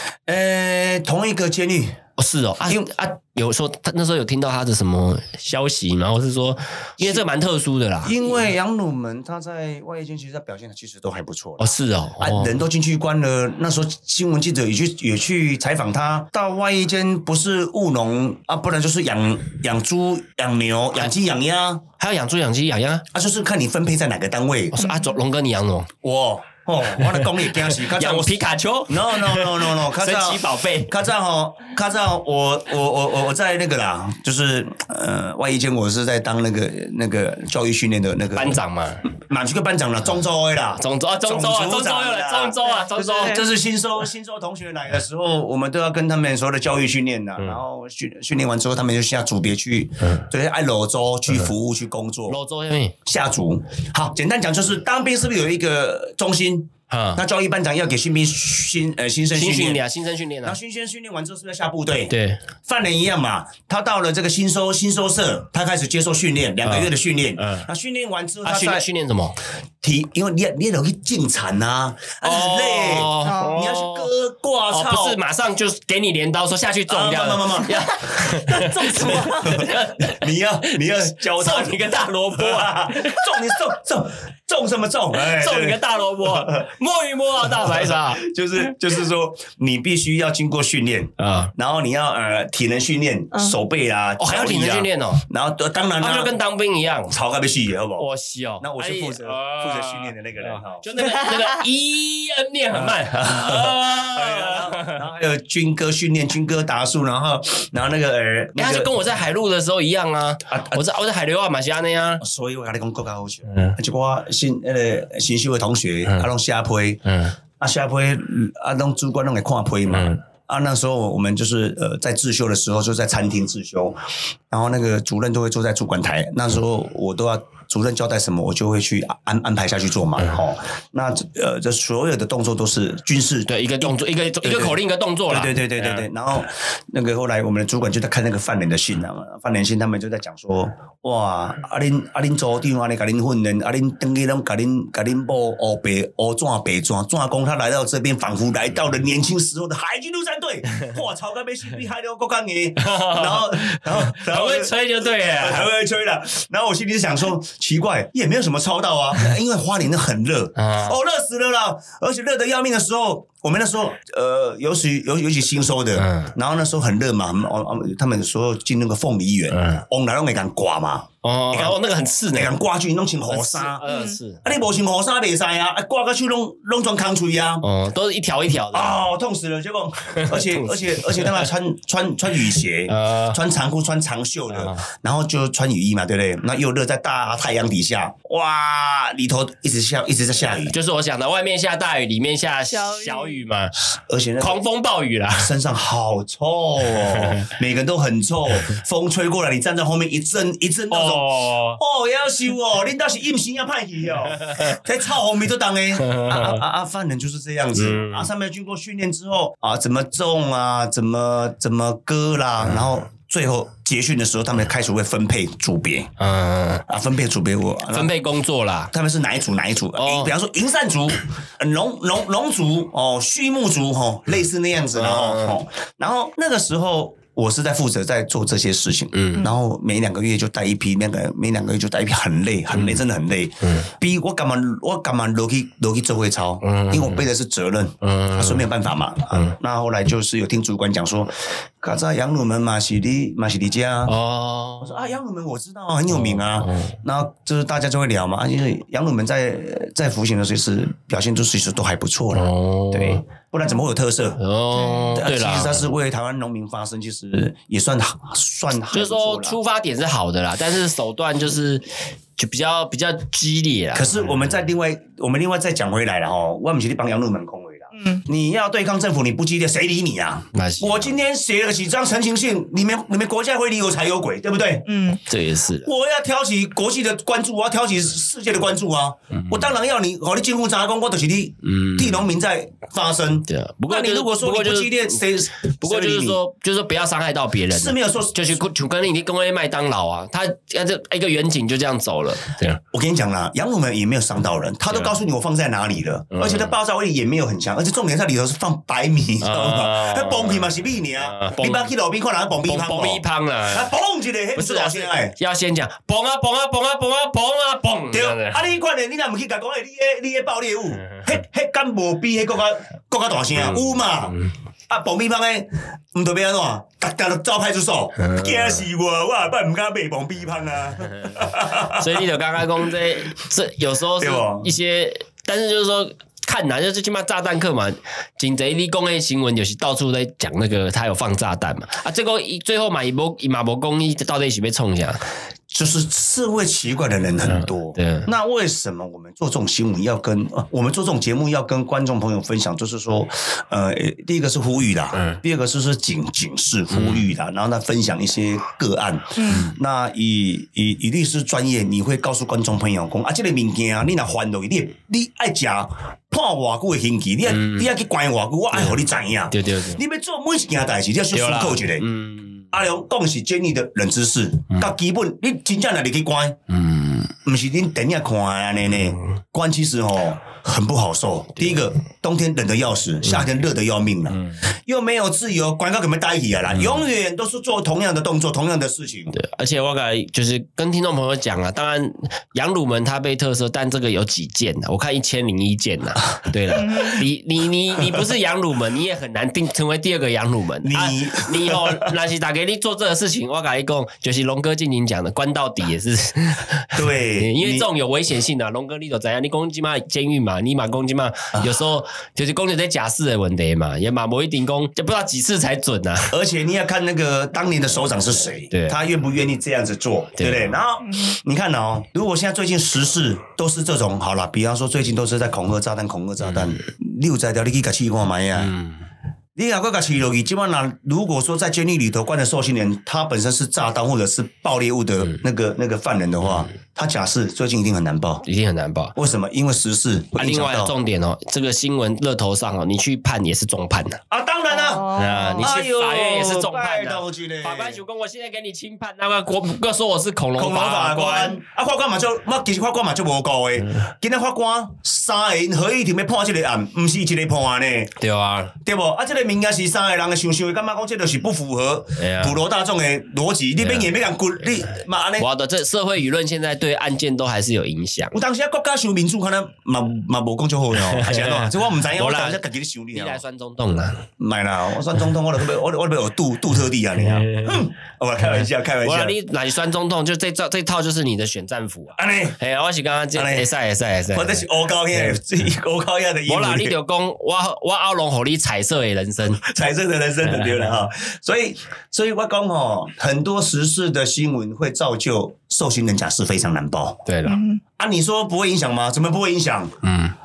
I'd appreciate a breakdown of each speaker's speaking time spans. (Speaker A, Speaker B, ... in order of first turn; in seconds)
Speaker A: 0.3-2.0, 2.6-2.9, 7.0-7.2, 8.0-21.9, 23.1-24.9, 26.0-52.4, 53.0-59.8, 60.4-62.1, 62.6-68.8, 69.8-75.2, 76.9-86.7, 87.4-96.3, 97.1-98.1, 98.6-101.3, 102.7-108.9, 110.5-110.8, 112.2-117.0, 117.6-124.0, 124.5-171.8, 172.3-173.8, 174.4-177.7, 178.7-190.8, 193.9-194.6, 195.3-216.1, 216.9-218.1, 218.9-244.1, 244.8-254.4, 255.1-259.6, 263.9-274.9, 275.8-286.4, 287.7-288.6, 292.9-305.3, 308.1-314.3, 314.9-322.2, 324.2-324.8, 335.7-362.1, 362.7-366.6, 367.4-379.4, 390.8-392.1, 396.9-397.9, 406.3-418.7, 419.6-428.4, 429.1-430.9, 434.3-438.0, 440.6-448.2, 448.8-455.5, 458.3-463.4, 464.4-469.3, 472.2-472.6, 473.3-473.7, 474.3-476.9, 479.6-487.2, 488.0-489.9
Speaker B: 2.2-8.4, 11.6-12.6, 22.0-23.0, 24.8-25.9, 27.0-31.0, 38.3-39.0, 40.8-43.4, 52.3-53.0, 56.9-57.2, 59.3-60.6, 62.1-62.4, 66.6-67.7, 68.4-69.4, 72.2-74.1, 74.7-83.7, 85.1-88.7, 91.2-91.5, 94.2-95.2, 96.0-97.1, 98.0-105.0, 108.6-112.2, 113.5-113.8, 117.0-117.3, 119.9-120.2, 133.5-136.1, 152.8-155.7, 160.6-161.0, 166.0-166.3, 169.5-169.8, 171.2-172.6, 173.3-174.4, 177.6-179.0, 180.2-181.5, 182.9-183.4, 184.5-184.8, 190.6-193.8, 194.4-195.5, 197.0-197.4, 200.9-201.8, 204.5-204.7, 206.0-206.6, 207.8-208.3, 216.2-216.8, 217.9-218.9, 219.9-220.3, 224.9-225.6, 229.1-229.5, 232.7-233.0, 233.6-233.9, 236.6-237.2, 238.0-238.7, 244.1-245.1, 246.1-246.9, 252.3-253.2, 254.4-255.8, 258.9-261.8, 262.4-264.2, 270.5-271.1, 275.3-275.9, 279.3-279.7, 281.6-282.3, 283.5-285.2, 285.8-292.8, 296.3-296.7, 299.4-301.9, 302.7-303.9, 304.6-308.6, 313.5-314.5, 318.2-318.8, 321.8-335.2, 337.4-338.3, 346.9-347.3, 349.5-349.7, 357.4-357.9, 358.7-360.0, 361.3-362.7, 366.7-367.3, 374.3-374.6, 376.7-377.0, 379.3-406.3, 408.7-409.0, 410.4-410.8, 418.6-419.0, 428.5-429.1, 430.4-434.2, 435.1-441.6, 448.2-448.7, 452.2-452.6, 453.8-454.1, 455.4-458.4, 461.1-462.6, 463.1-464.2, 467.2-467.8, 469.0-475.4, 476.5-479.6, 480.4-480.9, 487.3-487.6, 490.0-490.3
Speaker C: 24.8-25.1, 73.2-73.6, 78.4-79.7, 173.8-174.2, 192.7-193.4, 254.7-255.2, 267.9-268.2, 274.9-275.2, 349.4-349.6, 386.7-387.2, 411.0-411.3, 434.7-435.7, 487.4-487.8